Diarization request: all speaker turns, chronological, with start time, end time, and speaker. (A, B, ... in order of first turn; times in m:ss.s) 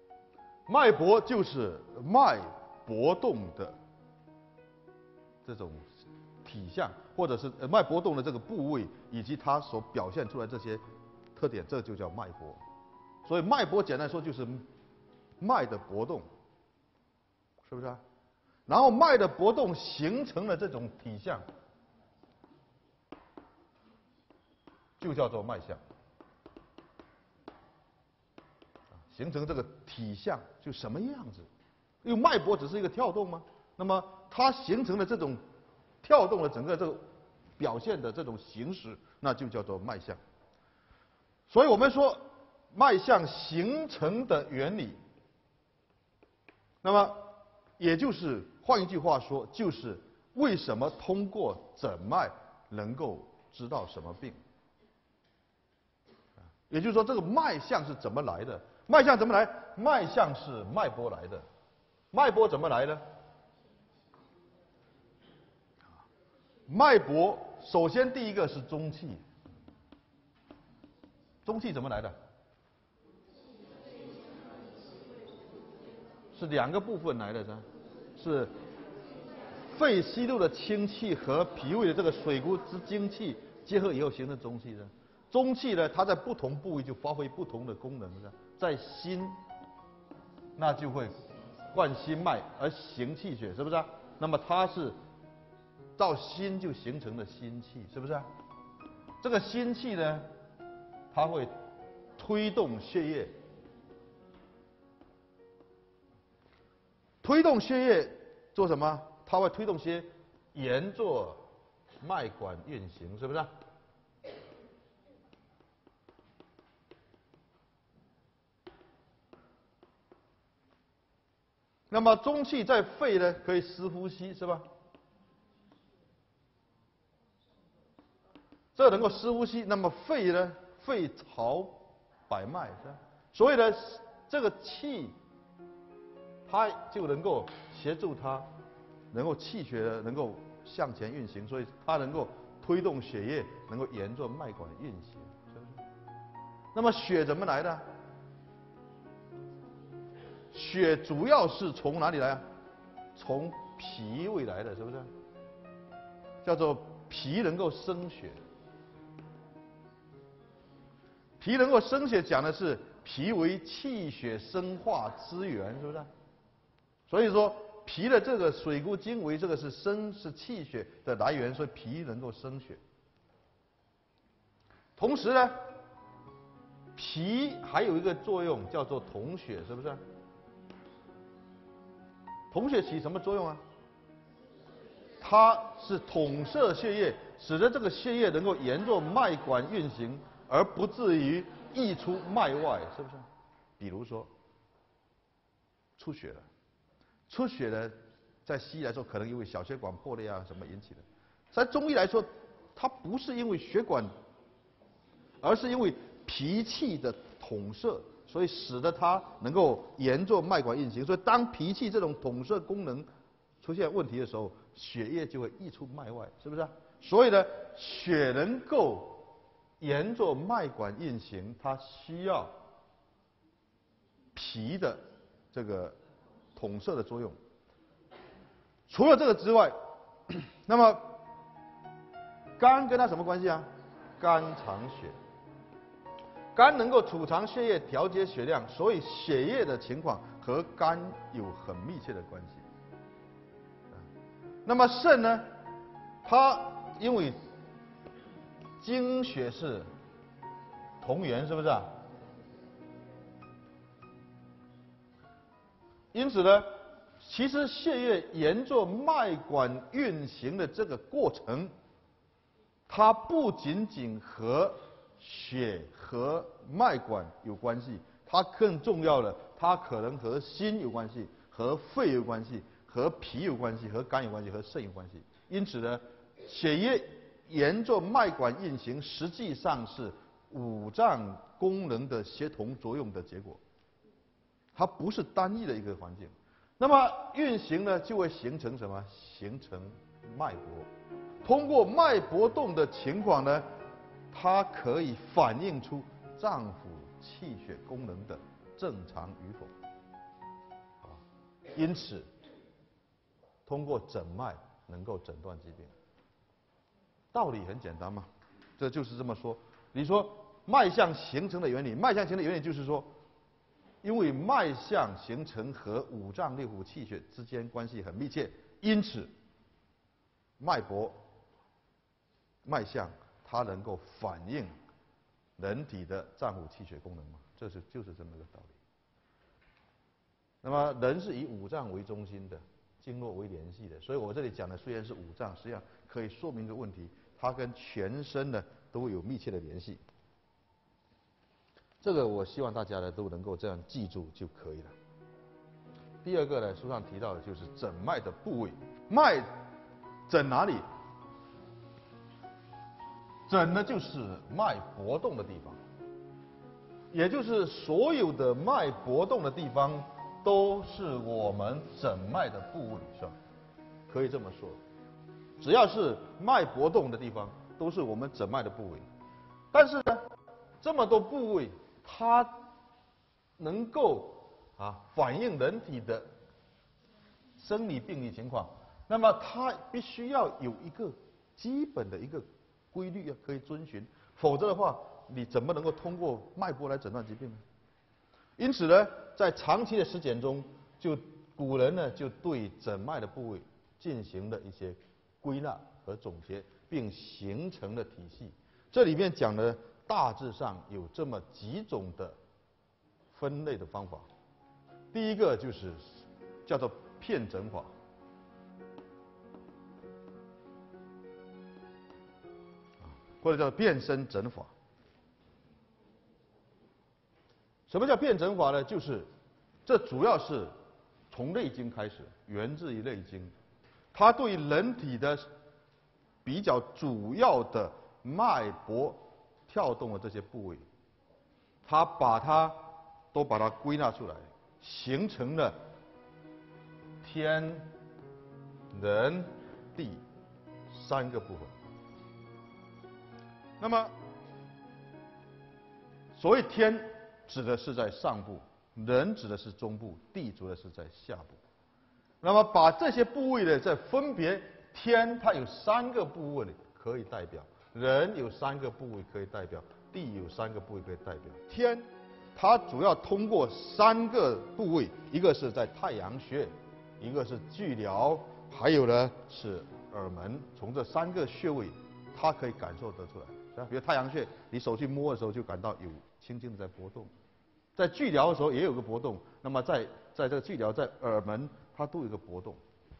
0:00.7-0:03.8 A
0:05.4-0:05.9 A
0:06.4-0:10.8 A
0:11.4-0:12.6 A
0:13.2-0:14.7 A
0:15.4-0:16.3 A
0:17.6-0:18.0 A
0:18.7-0:21.4 A
0:25.0-0:25.8 A
0:28.9-0:31.5 A
0:32.0-0:35.4 A
0:36.0-0:37.0 A
0:37.6-0:40.2 A
0:41.5-0:45.0 A
0:46.8-0:54.4 A
0:56.7-1:01.4 A
1:02.1-1:03.0 A
1:06.7-1:09.2 A
1:11.4-1:12.2 A
1:16.3-1:17.6 A
1:18.2-1:18.5 A
1:19.7-1:29.4 A
1:30.6-1:31.2 A
1:31.7-1:35.0 A
1:36.0-1:38.3 A
1:39.2-1:40.3 A
1:41.1-1:41.5 A
1:42.2-1:43.3 A
1:47.2-1:51.4 A
1:52.0-1:53.5 A
2:01.9-2:04.6 A
2:08.8-2:15.2 A
2:16.5-2:18.5 A
2:19.1-2:25.8 A
2:26.7-2:27.8 A
2:30.5-2:32.4 A
2:33.2-2:35.1 A
2:36.4-2:38.4 A
2:41.4-2:46.1 A
2:47.1-2:52.8 A
2:55.0-2:55.6 A
2:57.0-3:00.0 A
3:02.5-3:03.6 A
3:05.2-3:13.3 A
3:13.8-3:14.3 A
3:16.0-3:16.5 A
3:17.3-3:24.1 A
3:25.4-3:33.1 A
3:33.6-3:39.3 A
3:39.8-3:42.5 A
3:44.4-3:46.0 A
3:46.6-3:47.4 A
3:48.9-3:49.8 A
3:50.3-3:51.2 A
3:52.6-3:53.7 A
3:54.2-3:55.2 A
3:56.6-4:02.6 A
4:04.6-4:05.5 A
4:06.2-4:07.4 A
4:08.8-4:09.9 A
4:11.0-4:12.0 A
4:16.1-4:21.7 A
4:22.9-4:43.6 A
4:44.7-4:50.9 A
4:51.4-4:53.6 A
4:54.3-4:59.7 A
5:01.7-5:02.3 A
5:03.7-5:05.9 A
5:07.3-5:13.1 A
5:14.0-5:19.3 A
5:20.6-5:21.2 A
5:22.6-5:24.7 A
5:25.6-5:28.8 A
5:30.6-5:40.0 A
5:42.0-5:44.9 A
5:46.2-5:49.5 A
5:50.3-5:50.8 A
5:53.5-5:55.8 A
5:57.1-6:03.3 A
6:04.1-6:04.8 A
6:05.6-6:09.0 A
6:09.7-6:10.3 A
6:10.8-6:12.7 A
6:13.6-6:16.3 A
6:17.6-6:27.6 A
6:28.6-6:42.4 A
6:43.3-6:44.3 A
6:45.1-6:47.9 A
6:53.0-6:54.7 A
6:57.9-6:59.3 A
6:59.8-7:00.7 A
7:01.3-7:03.5 A
7:04.1-7:05.5 A
7:06.4-7:10.8 A
7:11.8-7:15.8 A
7:17.2-7:17.9 A
7:18.9-7:20.2 A
7:20.9-7:21.7 A
7:23.8-7:24.1 A
7:26.4-7:31.6 A
7:32.4-7:57.3 A
7:58.0-8:02.8 A